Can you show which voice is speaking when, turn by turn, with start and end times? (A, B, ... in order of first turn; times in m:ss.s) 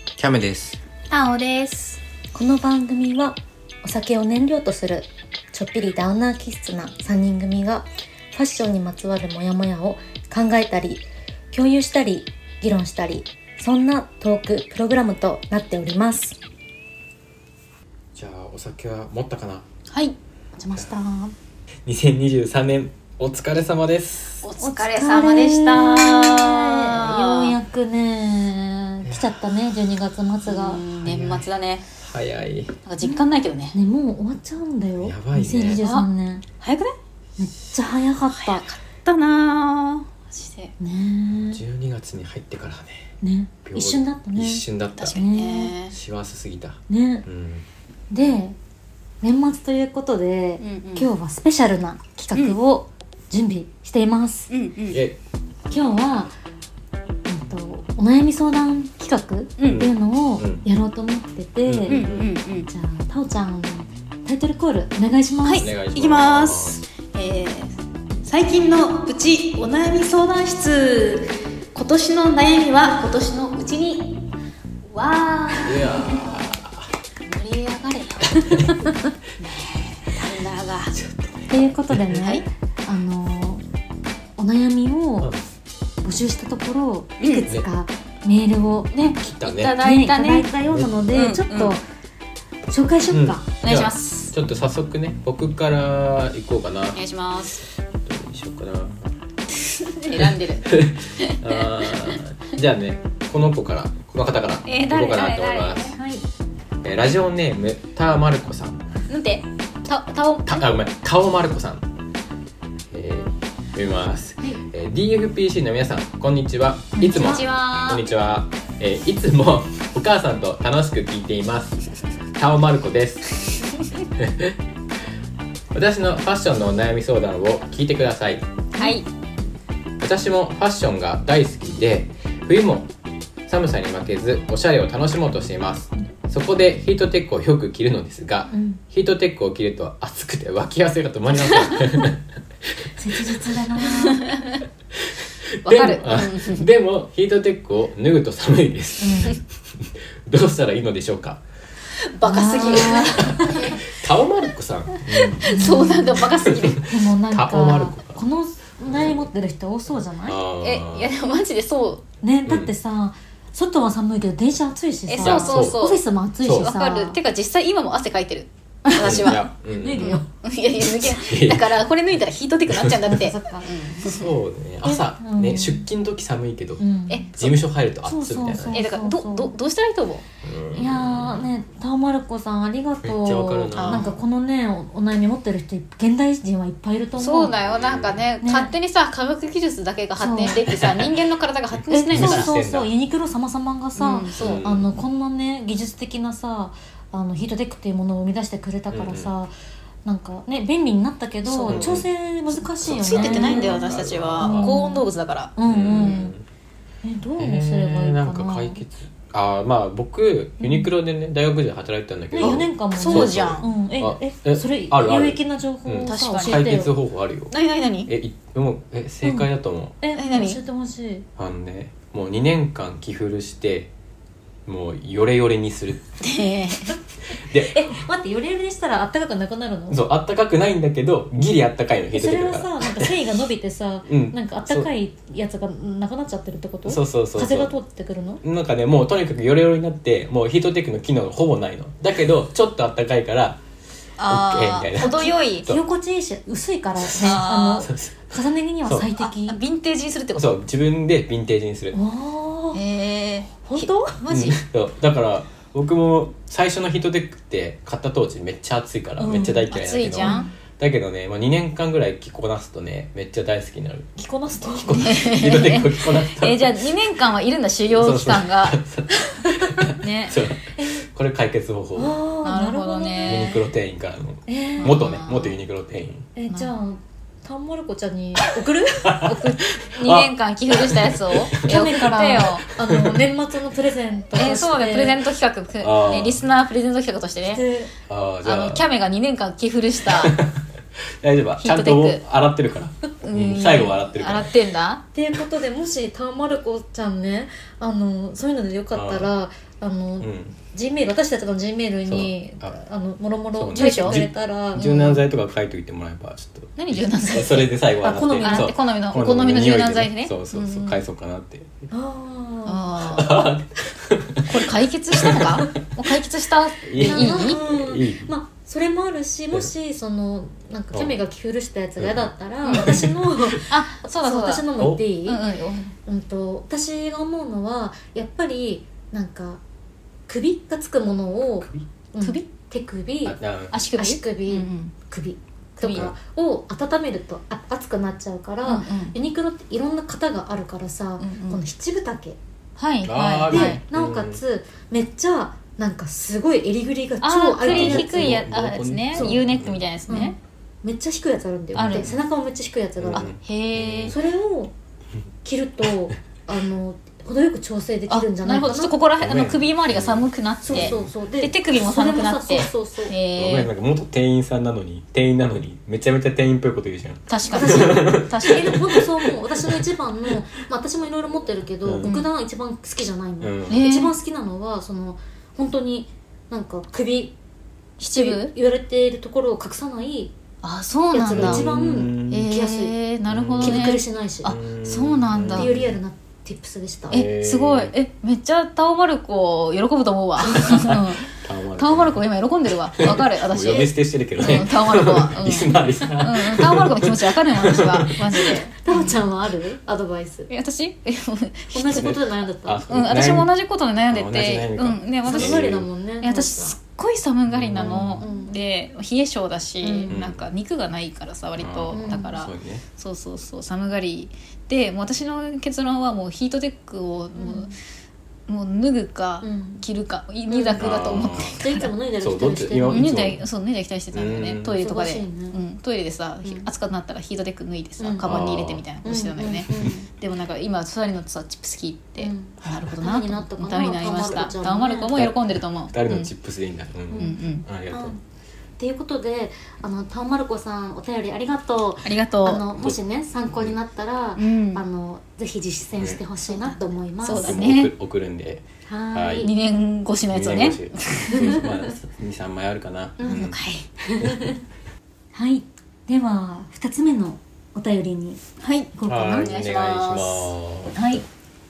0:00.2-0:00.8 A
0:01.1-0:02.0 B
0:02.3-0:16.4 C
0:18.1-0:19.6 A
0:19.9-0:20.2 B
0:20.6-0:21.3 C
0:21.8-0:24.4 A
0:24.4-0:27.5 B
0:24.6-0:30.8 C
0:29.0-0:29.3 A
0:30.4-0:31.8 B
0:30.9-0:31.4 A
0:32.0-0:32.8 A
0:32.8-0:33.8 B
0:33.7-0:36.4 C
0:35.0-0:35.8 A
0:35.6-0:36.1 B
0:36.6-0:36.9 B
0:37.4-0:38.7 C
0:38.3-0:40.7 B
0:40.8-0:41.6 C
0:41.4-0:43.1 A
0:43.2-0:45.7 C
0:43.6-0:45.2 A
0:45.0-0:45.9 B
0:45.9-0:47.6 A
0:46.9-0:47.2 C
0:48.1-0:48.6 C
0:49.2-0:54.5 C
0:50.6-0:51.1 B
0:54.5-0:55.0 B
0:54.9-0:55.2 A
0:55.7-0:56.3 C
0:57.2-1:02.0 C
0:59.6-0:59.9 B
0:59.7-1:00.6 A
1:01.6-1:02.3 A
1:01.9-1:02.7 B
1:02.6-1:05.7 C
1:05.4-1:14.2 B
1:05.6-1:06.8 A
1:14.8-1:16.1 B
1:15.6-1:16.9 A
1:17.2-1:21.0 B
1:18.5-1:18.8 A
1:20.9-1:22.0 A
1:21.5-1:23.6 C
1:22.1-1:22.4 B
1:24.4-1:25.3 C
1:26.0-1:28.9 C
1:27.2-1:27.5 B
1:28.9-1:30.5 B
1:29.2-1:29.8 A
1:29.7-1:31.8 C
1:30.6-1:30.9 A
1:31.1-1:31.7 B
1:32.7-1:33.4 C
1:33.1-1:37.0 A
1:33.6-1:34.3 B
1:36.9-1:37.6 B
1:38.0-1:39.0 A
1:39.6-1:42.2 B
1:40.2-1:46.0 A
1:44.6-1:46.0 B
1:45.9-1:46.2 C
1:46.8-1:48.8 A
1:49.1-1:50.6 B
1:50.5-1:51.8 A
1:52.9-2:03.6 A
1:57.0-1:57.4 C
1:57.1-1:58.0 B
2:04.2-2:04.5 A
2:05.7-2:08.5 A
2:08.7-2:09.1 B
2:10.0-2:12.9 A
2:13.4-2:22.2 A
2:18.5-2:18.8 C
2:23.0-2:24.2 C
2:23.2-2:23.5 A
2:24.0-2:24.6 B
2:25.6-2:31.4 A
2:25.6-2:26.7 B
2:29.0-2:29.3 C
2:32.0-2:33.8 B
2:32.2-2:33.8 C
2:32.9-2:35.6 A
2:35.1-2:36.8 B
2:35.4-2:36.3 C
2:36.3-2:38.2 A
2:36.9-2:40.4 C
2:38.8-2:39.3 A
2:40.2-2:41.1 A
2:40.6-2:42.0 B
2:42.2-2:47.2 C
2:42.4-2:42.7 A
2:45.1-2:46.0 B
2:45.2-2:45.8 A
2:46.4-2:46.7 A
2:46.6-2:54.3 B
2:48.9-2:50.3 C
2:49.0-2:50.2 A
2:51.0-2:51.7 A
2:52.7-2:52.9 A
2:53.1-2:54.0 C
2:54.0-2:56.8 A
2:54.8-2:55.8 C
2:56.8-2:57.3 C
2:57.1-2:57.5 B
2:57.4-2:58.8 A
2:58.0-2:59.5 C
2:58.7-3:00.2 B
3:00.4-3:01.4 A
3:00.7-3:07.5 C
3:03.0-3:04.2 A
3:03.7-3:04.1 B
3:07.2-3:12.5 B
3:07.6-3:08.2 A
3:08.4-3:08.7 C
3:10.2-3:10.6 C
3:10.7-3:11.1 A
3:11.8-3:12.9 A
3:11.9-3:19.5 C
3:14.0-3:14.6 B
3:14.3-3:14.9 A
3:18.9-3:19.3 A
3:20.0-3:23.8 C
3:21.4-3:21.9 B
3:21.7-3:22.1 A
3:22.8-3:24.8 A
3:23.0-3:26.2 B
3:24.4-3:26.3 C
3:25.6-3:26.4 A
3:27.0-3:28.8 C
3:27.4-3:37.6 A
3:32.3-3:36.9 C
3:32.4-3:33.7 B
3:36.0-3:36.8 B
3:37.5-3:38.1 B
3:38.1-3:40.0 A
3:39.2-3:39.5 C
3:40.0-3:41.2 C
3:40.1-3:40.6 B
3:41.4-3:43.9 A
3:44.7-3:46.1 A
3:46.2-3:46.9 B
3:47.3-3:47.8 A
3:47.5-3:50.0 C
3:49.9-3:53.1 A
3:52.1-3:58.4 C
3:54.1-3:54.9 A
3:56.8-3:57.7 A
3:58.4-4:03.6 A
4:04.2-4:05.7 B
4:04.3-4:05.8 A
4:05.0-4:09.6 C
4:07.1-4:08.3 A
4:07.1-4:07.9 B
4:09.2-4:10.6 B
4:10.4-4:12.0 A
4:11.9-4:12.8 C
4:12.7-4:14.6 B
4:13.6-4:14.2 C
4:14.3-4:24.1 A
4:19.2-4:20.5 C
4:19.7-4:20.5 B
4:24.2-4:25.1 C
4:24.8-4:27.0 A
4:24.9-4:28.8 B
4:27.9-4:32.2 A
4:30.0-4:30.4 B
4:30.8-4:31.0 C
4:32.0-4:33.6 C
4:32.4-4:33.6 B
4:33.2-4:36.3 A
4:34.5-4:35.0 C
4:34.8-4:35.6 B
4:36.4-4:39.6 C
4:38.4-4:43.2 A
4:39.8-4:42.6 B
4:41.6-4:45.2 C
4:44.3-4:47.6 B
4:45.8-4:46.4 A
4:47.4-4:47.9 C
4:48.1-4:48.8 A
4:48.4-4:50.4 B
4:50.2-4:50.6 A
4:51.2-4:54.5 A
4:51.6-4:52.2 B
4:53.2-4:55.0 B
4:55.1-5:05.2 C
4:58.9-4:59.3 A
5:00.2-5:00.6 A
5:02.1-5:02.8 A
5:03.5-5:11.7 A
5:03.7-5:04.2 B
5:04.8-5:05.1 B
5:06.8-5:07.7 B
5:08.0-5:08.7 C
5:08.4-5:10.3 B
5:10.5-5:11.0 C
5:11.9-5:13.5 C
5:12.6-5:13.5 B
5:13.2-5:14.5 A
5:14.4-5:17.6 B
5:15.2-5:15.7 A
5:16.8-5:18.3 A
5:17.0-5:25.4 C
5:20.9-5:21.2 A
5:22.0-5:23.6 A
5:22.6-5:23.1 B
5:23.7-5:24.7 B
5:24.8-5:25.0 A
5:25.2-5:25.9 B
5:26.0-5:29.6 C
5:30.3-5:33.4 C
5:33.2-5:33.8 A
5:33.7-5:34.9 B
5:33.9-5:42.4 C
5:35.8-5:36.1 B
5:35.8-5:36.1 A
5:38.6-5:39.2 B
5:41.2-5:41.6 B
5:42.8-5:43.8 B
5:43.0-5:44.4 A
5:43.5-5:48.4 C
5:47.2-5:50.4 B
5:47.6-5:49.8 A
5:49.1-5:49.5 C
5:50.1-5:53.3 C
5:51.7-5:52.1 B
5:51.7-5:52.2 A
5:53.0-5:54.2 A
5:53.1-5:54.2 B
5:54.1-5:54.7 C
5:55.4-5:58.9 C
5:58.1-6:03.7 B
5:59.2-6:01.1 A
6:00.7-6:03.1 C
6:03.4-6:09.8 A
6:07.3-6:08.8 B
6:07.5-6:17.4 C
6:11.8-6:12.1 A
6:12.0-6:12.3 B
6:13.4-6:13.8 A
6:13.7-6:14.1 B
6:18.0-6:18.5 B
6:18.0-6:20.3 C
6:20.6-6:21.6 B
6:21.1-6:22.9 C
6:21.3-6:22.5 A
6:22.3-6:25.7 B
6:23.3-6:23.8 A
6:23.6-6:24.5 C
6:24.4-6:26.0 A
6:25.5-6:27.2 C
6:27.1-6:27.9 A
6:27.1-6:38.8 B
6:30.6-6:32.2 A
6:33.0-6:38.5 A
6:38.7-6:40.5 C
6:40.5-6:42.1 B
6:41.7-6:42.8 C
6:41.9-6:43.5 A
6:42.9-6:57.7 B
6:44.1-6:45.8 A
6:45.2-6:46.8 C
6:47.5-6:48.2 A
6:47.8-6:48.6 C
6:49.8-6:50.2 C
6:50.1-6:50.4 A
6:51.6-6:52.8 A
6:51.9-6:52.3 C
6:57.4-6:57.7 C
6:58.5-7:01.9 B
6:59.4-6:59.8 C
7:00.5-7:03.1 C
7:00.8-7:01.6 A
7:02.2-7:03.4 A
7:02.9-7:16.3 B
7:04.1-7:04.8 A
7:04.8-7:05.6 C
7:06.4-7:06.7 C
7:08.0-7:08.3 C
7:08.2-7:08.8 A
7:09.0-7:10.1 C
7:12.2-7:15.1 C
7:15.1-7:18.1 A
7:17.1-7:18.2 C
7:17.2-7:17.6 B
7:18.8-7:27.6 C
7:22.0-7:22.6 B
7:24.4-7:24.8 B
7:26.4-7:27.9 B
7:27.4-7:29.5 A
7:28.8-7:29.5 C
7:29.4-7:31.6 B
7:30.3-7:33.6 A
7:31.3-7:31.9 C
7:33.2-7:34.6 C
7:33.2-7:33.8 B
7:34.2-7:34.5 A
7:35.3-7:38.4 C
7:38.6-7:40.5 B
7:38.9-7:39.5 C
7:39.0-7:41.0 A
7:40.9-7:41.2 C